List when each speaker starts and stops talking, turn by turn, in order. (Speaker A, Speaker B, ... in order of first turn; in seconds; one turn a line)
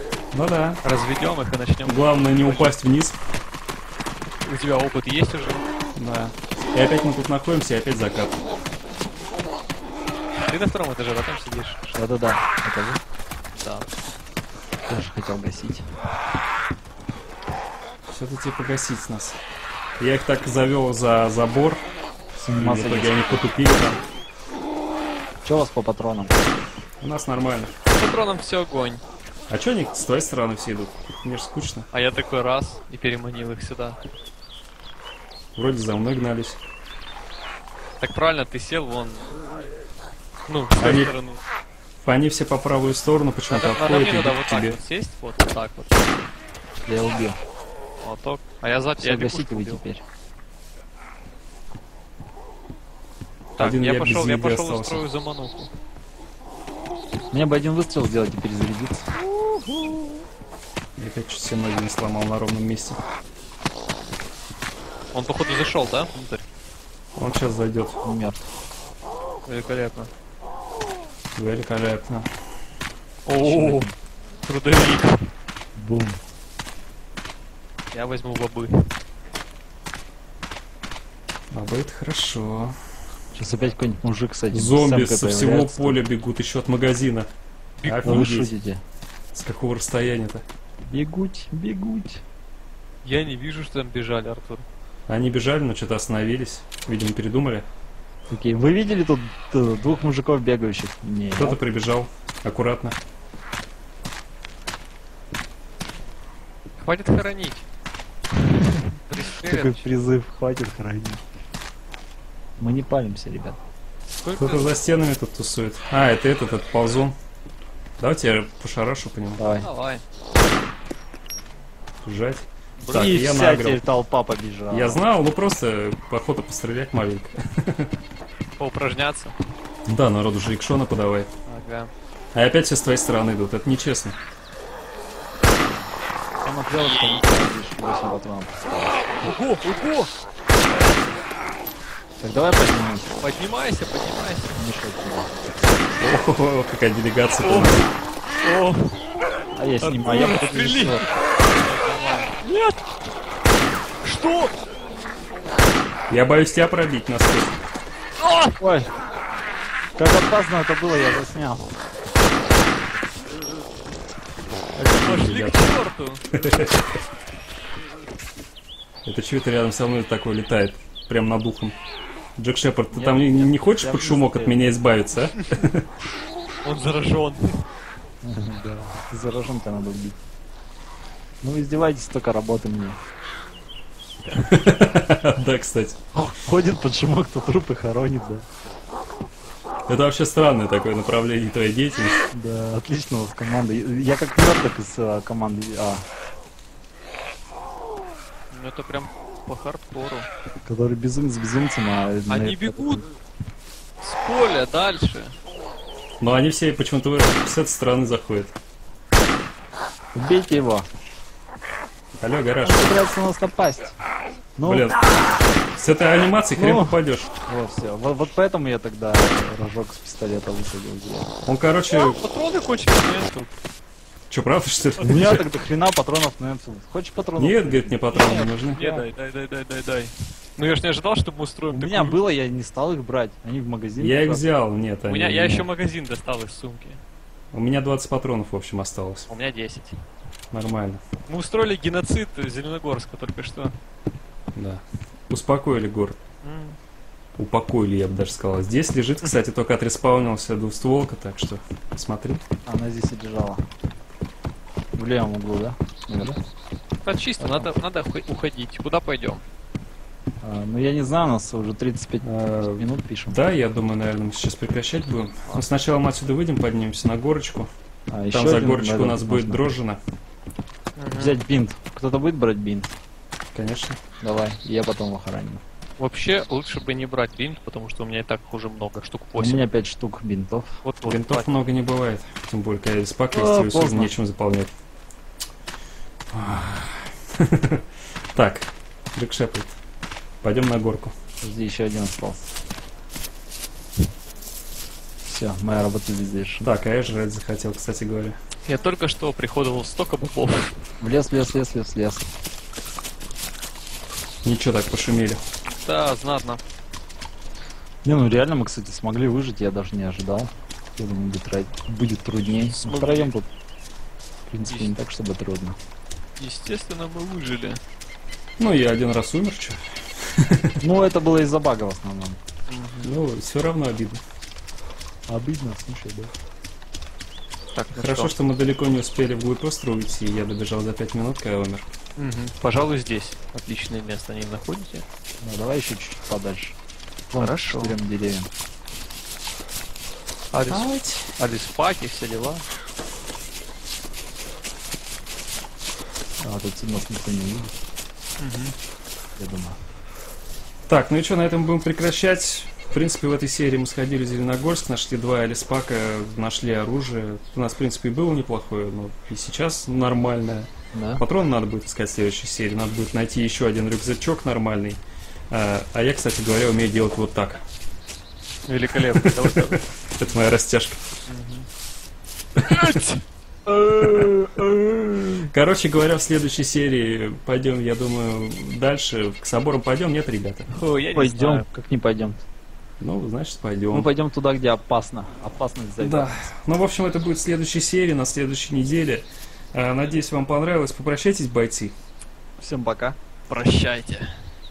Speaker A: 0.3-0.8
Speaker B: 0.8-2.7
Speaker A: 1.9-3.2
Speaker B: 4.4-5.7
Speaker A: 6.0-8.4
Speaker B: 10.4-11.9
Speaker C: 11.9-13.0
Speaker B: 13.5-13.9
Speaker C: 14.9-15.9
Speaker A: 18.1-19.4
Speaker A: 20.0-21.8
Speaker C: 22.4-23.5
Speaker A: 22.6-24.0
Speaker C: 25.4-26.4
Speaker A: 27.0-27.7
Speaker B: 27.9-29.0
Speaker A: 29.5-31.9
Speaker B: 31.9-34.0
Speaker A: 35.5-36.6
Speaker B: 38.0-39.3
Speaker B: 40.5-41.4
Speaker A: 40.8-41.1
Speaker A: 42.0-44.8
Speaker B: 43.5-46.1
Speaker C: 46.9-47.4
Speaker B: 48.0-49.8
Speaker C: 49.0-50.0
Speaker B: 53.6-55.7
Speaker A: 53.6-55.0
Speaker C: 57.3-59.1
Speaker A: 61.0-63.0
Speaker B: 65.1-66.5
Speaker A: 67.2-68.0
Speaker C: 68.0-68.5
Speaker B: 69.5-70.1
Speaker A: 71.3-72.3
Speaker B: 73.3-73.9
Speaker C: 73.3-73.9
Speaker B: 74.5-75.3
Speaker C: 75.8-76.2
Speaker B: 77.9-78.9
Speaker A: 81.5-82.8
Speaker C: 83.3-86.0
Speaker A: 84.5-87.3
Speaker B: 87.8-88.4
Speaker A: 87.8-88.5
Speaker C: 88.0-88.8
Speaker A: 89.3-90.5
Speaker C: 90.9-92.2
Speaker B: 93.0-94.7
Speaker A: 95.1-97.7
Speaker C: 98.3-101.6
Speaker A: 101.4-103.0
Speaker B: 106.8-107.7
Speaker C: 108.6-111.2
Speaker B: 109.1-109.9
Speaker C: 112.6-113.6
Speaker B: 114.2-114.7
Speaker A: 114.4-117.2
Speaker A: 118.0-119.4
Speaker C: 119.4-119.7
Speaker B: 119.6-120.0
Speaker A: 122.0-123.8
Speaker C: 122.8-125.0
Speaker A: 124.7-127.9
Speaker B: 128.6-129.3
Speaker A: 129.9-131.3
Speaker B: 131.5-131.9
Speaker A: 132.3-134.2
Speaker C: 136.4-139.2
Speaker B: 136.9-137.2
Speaker B: 139.2-140.1
Speaker B: 140.7-141.0
Speaker C: 142.2-143.1
Speaker B: 143.2-144.6
Speaker C: 144.5-145.5
Speaker A: 146.0-147.9
Speaker B: 147.4-149.0
Speaker C: 149.6-151.1
Speaker B: 149.8-152.8
Speaker B: 154.0-154.5
Speaker A: 156.1-157.6
Speaker B: 158.2-158.6
Speaker C: 158.6-158.9
Speaker C: 160.0-161.7
Speaker A: 164.8-165.7
Speaker B: 164.9-166.2
Speaker A: 166.3-166.9
Speaker A: 169.1-171.8
Speaker A: 172.4-175.9
Speaker C: 172.9-174.8
Speaker B: 176.6-177.7
Speaker C: 178.2-180.2
Speaker C: 181.4-183.0
Speaker A: 184.4-186.0
Speaker C: 186.1-188.5
Speaker A: 189.9-192.2
Speaker C: 192.3-196.0
Speaker B: 198.5-200.3
Speaker C: 200.7-203.1
Speaker B: 202.3-203.0
Speaker B: 204.0-205.4
Speaker A: 206.2-208.5
Speaker C: 210.2-210.9
Speaker A: 212.2-212.9
Speaker C: 212.6-213.9
Speaker C: 214.6-215.2
Speaker A: 214.6-215.1
Speaker A: 215.8-217.3
Speaker C: 216.6-216.9
Speaker C: 217.5-221.3
Speaker A: 221.4-222.2
Speaker B: 221.9-223.5
Speaker A: 224.3-225.5
Speaker C: 225.0-229.0
Speaker A: 227.4-228.8
Speaker B: 228.1-232.2
Speaker C: 231.7-234.4
Speaker A: 234.0-235.7
Speaker B: 235.1-237.0
Speaker A: 237.5-239.3
Speaker B: 239.3-240.0
Speaker A: 240.5-241.0
Speaker B: 241.3-243.8
Speaker A: 244.6-246.2
Speaker B: 246.4-246.8
Speaker A: 247.4-252.4
Speaker C: 252.7-253.6
Speaker C: 255.0-256.4
Speaker B: 257.1-259.4
Speaker C: 257.4-257.7
Speaker C: 260.4-263.4
Speaker A: 262.2-267.7
Speaker C: 268.1-269.7
Speaker A: 268.3-270.0
Speaker B: 271.0-271.4
Speaker C: 271.1-272.9
Speaker A: 273.5-274.0
Speaker C: 274.2-275.6
Speaker B: 276.0-279.7
Speaker C: 279.4-280.8
Speaker B: 280.8-281.6
Speaker A: 281.1-284.7
Speaker C: 283.3-284.1
Speaker A: 286.3-289.8
Speaker A: 290.4-291.1
Speaker C: 291.4-292.5
Speaker C: 295.3-296.7
Speaker A: 296.6-298.4
Speaker B: 298.6-300.7
Speaker C: 301.0-302.3
Speaker A: 304.4-305.4
Speaker B: 305.6-306.6
Speaker C: 308.1-313.5
Speaker B: 312.7-313.3
Speaker C: 314.5-315.8
Speaker B: 314.7-314.9
Speaker B: 316.4-317.8
Speaker A: 318.6-320.8
Speaker C: 320.8-322.4
Speaker B: 322.7-323.1
Speaker A: 323.0-324.2
Speaker C: 325.3-326.3
Speaker B: 327.8-328.3
Speaker A: 327.9-331.9
Speaker B: 332.2-335.1
Speaker C: 335.4-336.8
Speaker C: 337.3-338.5
Speaker B: 337.4-338.0
Speaker B: 340.5-342.6
Speaker A: 340.7-341.4
Speaker C: 346.4-347.7
Speaker B: 348.4-348.8
Speaker C: 349.4-349.8
Speaker A: 350.9-367.6
Speaker C: 360.9-361.2
Speaker B: 368.7-369.9
Speaker A: 368.9-371.0
Speaker B: 371.3-371.7
Speaker A: 372.6-373.0
Speaker B: 372.6-373.2
Speaker C: 373.7-375.5
Speaker A: 374.0-374.3
Speaker A: 375.5-380.7
Speaker B: 380.7-381.7
Speaker C: 381.1-382.4
Speaker A: 383.0-384.1
Speaker C: 383.9-386.4
Speaker A: 386.0-392.0
Speaker C: 392.6-393.2
Speaker B: 393.5-394.5